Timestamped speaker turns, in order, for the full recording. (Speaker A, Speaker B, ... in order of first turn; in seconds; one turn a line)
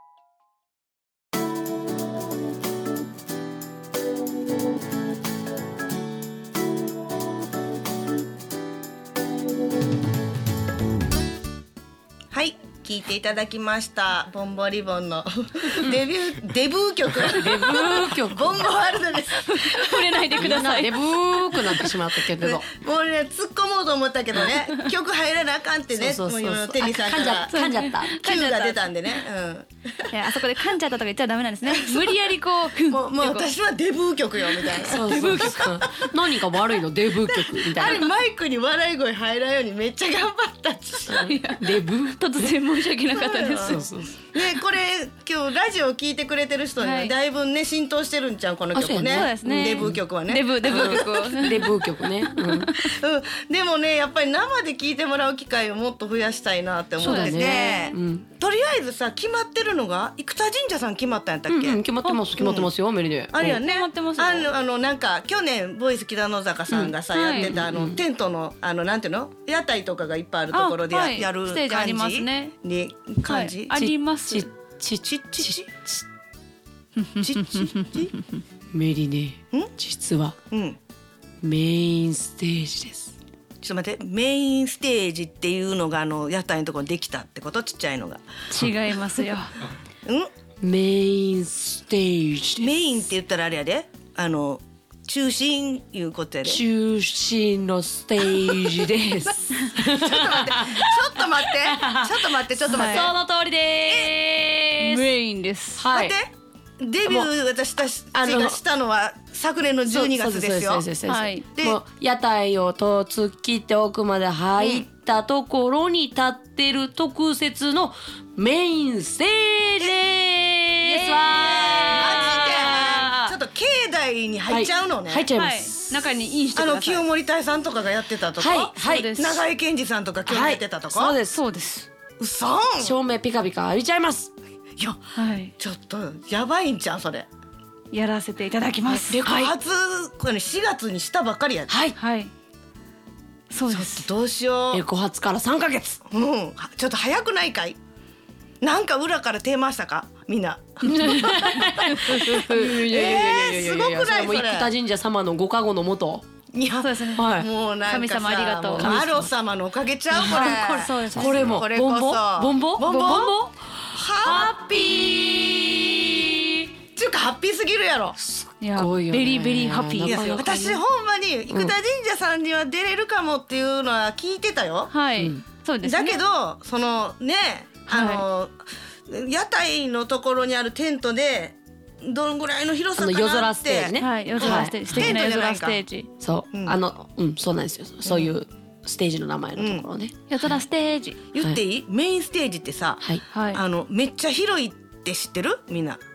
Speaker A: 12.3-20.0
Speaker B: 17.3-18.7
Speaker C: 19.5-21.0
Speaker B: 20.4-22.6
Speaker C: 21.5-21.8
Speaker A: 22.4-27.5
Speaker B: 25.9-28.1
Speaker C: 27.5-28.9
Speaker A: 28.1-30.1
Speaker C: 30.1-33.5
Speaker A: 31.7-32.1
Speaker A: 32.9-36.1
Speaker C: 34.8-35.5
Speaker B: 34.8-38.0
Speaker A: 37.3-41.3
Speaker B: 41.1-42.5
Speaker C: 41.2-43.9
Speaker A: 43.1-43.8
Speaker B: 43.6-44.1
Speaker A: 44.3-51.2
Speaker C: 46.8-47.1
Speaker B: 48.7-50.0
Speaker C: 49.1-52.9
Speaker B: 50.7-52.7
Speaker A: 52.7-61.8
Speaker C: 57.0-57.8
Speaker B: 57.0-58.2
Speaker B: 61.5-63.6
Speaker C: 62.0-62.3
Speaker A: 62.4-62.7
Speaker A: 63.3-73.9
Speaker C: 63.4-64.5
Speaker B: 66.7-68.0
Speaker C: 67.1-67.5
Speaker C: 70.5-72.5
Speaker C: 73.3-74.5
Speaker B: 73.8-76.0
Speaker A: 75.0-75.7
Speaker C: 77.1-78.4
Speaker A: 77.2-78.1
Speaker B: 78.7-80.3
Speaker A: 80.5-80.8
Speaker B: 81.4-83.1
Speaker A: 83.6-88.2
Speaker C: 88.5-89.5
Speaker B: 90.6-92.7
Speaker A: 92.6-96.6
Speaker B: 96.4-102.2
Speaker A: 98.2-103.1
Speaker B: 102.7-105.1
Speaker C: 102.7-103.1
Speaker A: 103.9-104.1
Speaker C: 104.8-105.8
Speaker B: 105.8-106.2
Speaker A: 105.9-110.9
Speaker B: 108.1-108.6
Speaker B: 109.8-123.3
Speaker C: 111.0-111.4
Speaker A: 111.5-111.8
Speaker A: 114.5-114.9
Speaker C: 120.8-123.0
Speaker A: 121.3-125.3
Speaker B: 124.5-126.0
Speaker C: 125.3-127.0
Speaker A: 126.5-131.2
Speaker B: 128.3-129.4
Speaker C: 128.7-129.3
Speaker B: 130.2-131.4
Speaker C: 131.3-131.9
Speaker A: 132.2-132.9
Speaker B: 132.8-134.3
Speaker C: 135.1-135.5
Speaker A: 135.6-137.3
Speaker C: 137.9-139.5
Speaker A: 138.9-141.8
Speaker B: 141.7-142.0
Speaker C: 141.9-142.3
Speaker C: 143.5-144.1
Speaker A: 143.7-144.8
Speaker B: 144.7-146.0
Speaker A: 146.0-147.8
Speaker A: 148.6-151.2
Speaker B: 150.8-156.2
Speaker C: 151.9-152.4
Speaker A: 152.4-154.7
Speaker A: 156.5-163.3
Speaker C: 156.8-157.3
Speaker B: 157.2-157.5
Speaker C: 157.8-159.1
Speaker B: 158.7-159.3
Speaker B: 160.1-166.6
Speaker C: 160.2-161.6
Speaker C: 162.8-163.5
Speaker A: 163.9-165.7
Speaker A: 166.9-168.2
Speaker B: 168.2-170.8
Speaker C: 168.6-170.6
Speaker A: 170.0-174.9
Speaker C: 174.9-176.2
Speaker B: 175.2-175.4
Speaker A: 175.8-178.6
Speaker C: 177.9-178.2
Speaker A: 179.1-185.8
Speaker B: 183.0-185.2
Speaker C: 183.9-186.1
Speaker B: 186.2-190.6
Speaker A: 186.5-186.8
Speaker A: 188.0-188.4
Speaker A: 189.6-189.8
Speaker C: 190.3-191.2
Speaker A: 191.3-196.0
Speaker C: 193.3-193.6